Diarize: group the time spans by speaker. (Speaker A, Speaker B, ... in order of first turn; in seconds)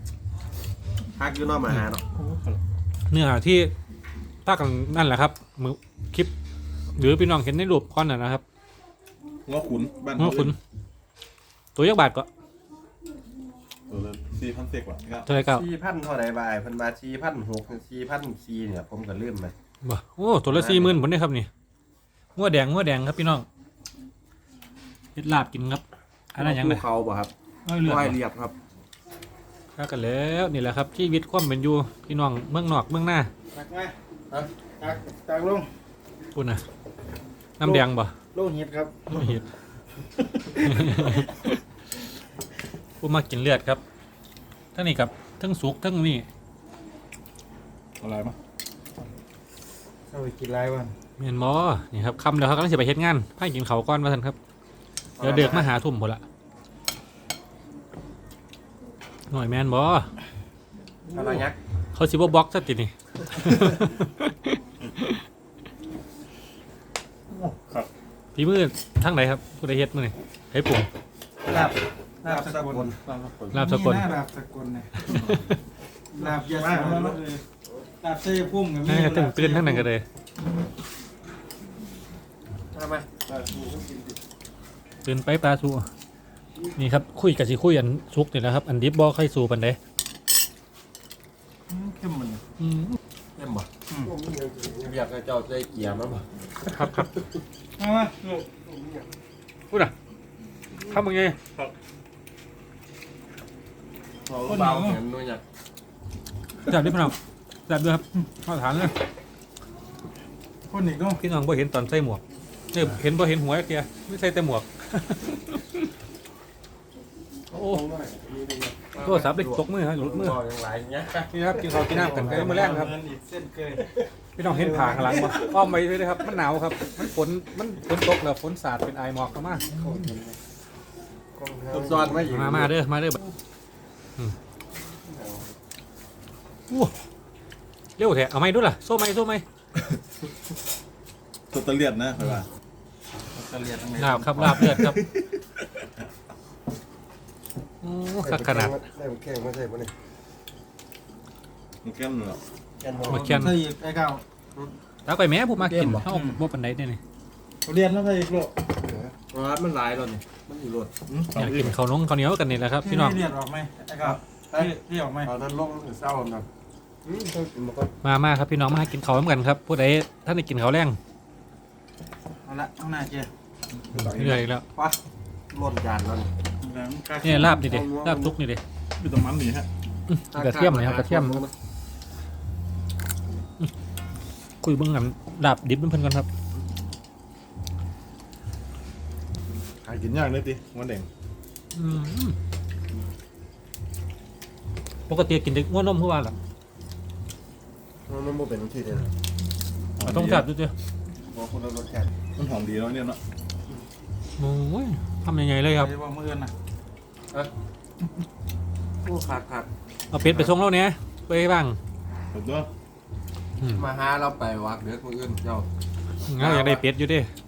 Speaker A: 1.2-2.0, 15.4-19.5, 20.5-21.0, 26.4-28.6, 55.2-55.7, 61.1-61.6, 72.2-73.0, 82.7-84.2, 93.4-96.3, 98.5-99.1, 104.3-105.4, 117.5-122.8, 129.7-130.4, 131.3-132.7, 135.0-135.5, 148.2-149.9, 152.8-153.3, 155.6-156.1, 158.8-160.9, 164.0-166.5, 167.1-167.9, 175.5-176.3, 177.4-178.4, 180.3-181.5, 198.1-199.1, 201.3-202.2, 209.0-210.5, 213.7-215.7, 216.4-216.8
Speaker B: 2.1-2.6, 9.5-10.5, 13.9-15.3, 48.0-48.4, 61.1-61.5, 67.3-67.9, 73.0-73.7, 75.1-75.4, 76.2-77.2, 141.5-142.5, 151.8-152.4, 157.7-158.5, 161.1-161.8, 173.8-174.4, 179.0-179.7, 189.8-191.1, 200.0-200.5, 202.4-203.2, 212.3-212.7
Speaker C: 3.1-3.7, 4.5-6.3, 7.0-8.4, 10.2-10.6, 11.8-12.3, 15.2-15.7, 19.8-21.5, 22.4-23.5, 25.2-25.8, 26.4-26.8, 27.7-28.2, 29.8-33.3, 36.4-36.6, 37.6-38.1, 39.1-39.4, 40.6-41.3, 43.0-43.8, 44.8-46.3, 51.2-54.4, 55.2-56.2, 59.3-60.1, 61.9-65.2, 68.3-70.9, 73.5-74.1, 75.1-75.6, 78.9-80.0, 85.0-85.9, 86.8-89.8, 92.6-93.0, 96.7-97.1, 100.8-101.4, 106.7-107.2, 107.7-109.0, 111.2-112.2, 112.7-115.6, 117.5-117.8, 119.0-120.4, 121.3-122.9, 124.4-129.7, 132.2-133.2, 138.0-139.4, 144.0-145.0, 147.8-148.8, 153.1-153.6, 155.1-157.0, 161.3-163.2, 168.0-171.0, 174.1-174.6, 177.2-178.6, 180.1-181.4, 184.6-186.3, 191.7-192.3, 195.1-196.3, 200.0-200.7, 204.4-205.9, 210.1-211.8, 213.6-213.9, 216.3-217.3
Speaker D: 33.5-33.9, 34.8-35.7, 37.6-39.4, 40.6-41.2, 50.1-50.9, 71.5-72.9, 73.5-75.3, 76.1-77.4, 78.0-79.9, 91.7-92.4, 97.8-98.5, 104.5-105.0, 110.7-111.2, 121.9-125.5, 143.3-144.9, 153.1-154.2, 156.1-156.4, 157.7-158.4, 162.8-165.3, 172.4-173.3, 176.6-177.6, 205.7-206.5